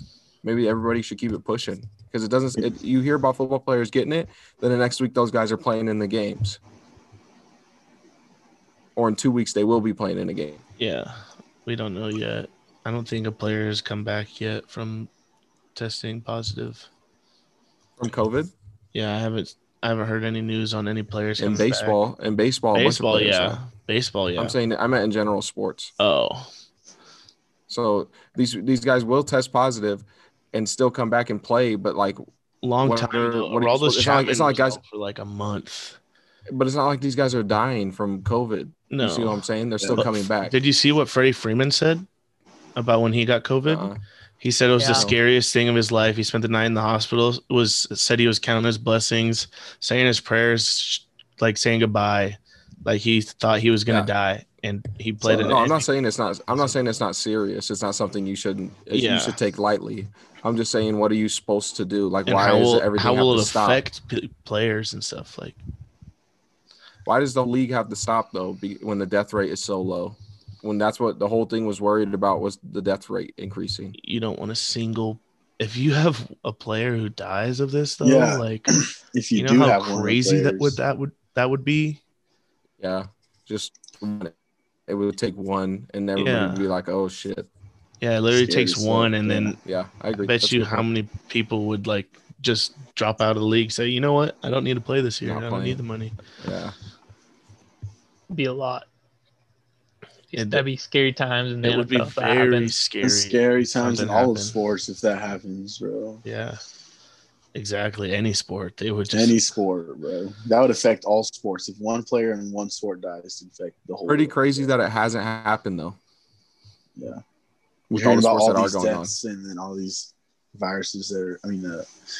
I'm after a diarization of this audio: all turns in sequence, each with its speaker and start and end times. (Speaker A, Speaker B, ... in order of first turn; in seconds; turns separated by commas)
Speaker A: 0.4-6.6, Speaker A: 8.9-10.6, Speaker B: 10.8-15.1, Speaker B: 15.7-16.9, Speaker A: 18.0-18.5, Speaker B: 18.9-22.0, Speaker A: 21.4-23.6, Speaker B: 22.7-24.6, Speaker A: 24.4-25.9, Speaker B: 26.0-26.5, Speaker A: 27.7-32.2, Speaker B: 32.6-36.0, Speaker A: 32.8-34.8, Speaker A: 36.5-40.6, Speaker B: 38.9-39.4, Speaker B: 39.9-42.0, Speaker B: 42.8-55.9, Speaker A: 43.7-44.0, Speaker C: 44.8-45.1, Speaker A: 44.9-45.2, Speaker D: 55.2-55.6, Speaker A: 55.4-63.8, Speaker B: 56.5-56.8, Speaker B: 58.9-59.4, Speaker B: 62.2-65.6, Speaker A: 67.0-73.9, Speaker B: 74.0-78.7, Speaker D: 78.0-80.8, Speaker B: 79.3-82.0, Speaker A: 82.8-84.3, Speaker A: 84.9-87.5, Speaker B: 86.2-86.7, Speaker B: 88.0-89.6, Speaker D: 88.3-89.5, Speaker A: 89.6-90.9, Speaker B: 90.2-96.2, Speaker A: 95.2-95.8, Speaker A: 96.3-96.7, Speaker C: 98.3-98.9, Speaker C: 100.3-102.7, Speaker B: 100.3-100.6, Speaker B: 101.6-104.6, Speaker D: 103.0-106.2, Speaker B: 106.2-106.6, Speaker B: 107.5-109.4, Speaker D: 109.1-114.7, Speaker A: 114.1-116.0, Speaker D: 117.0-117.2, Speaker A: 117.9-119.1, Speaker D: 117.9-121.9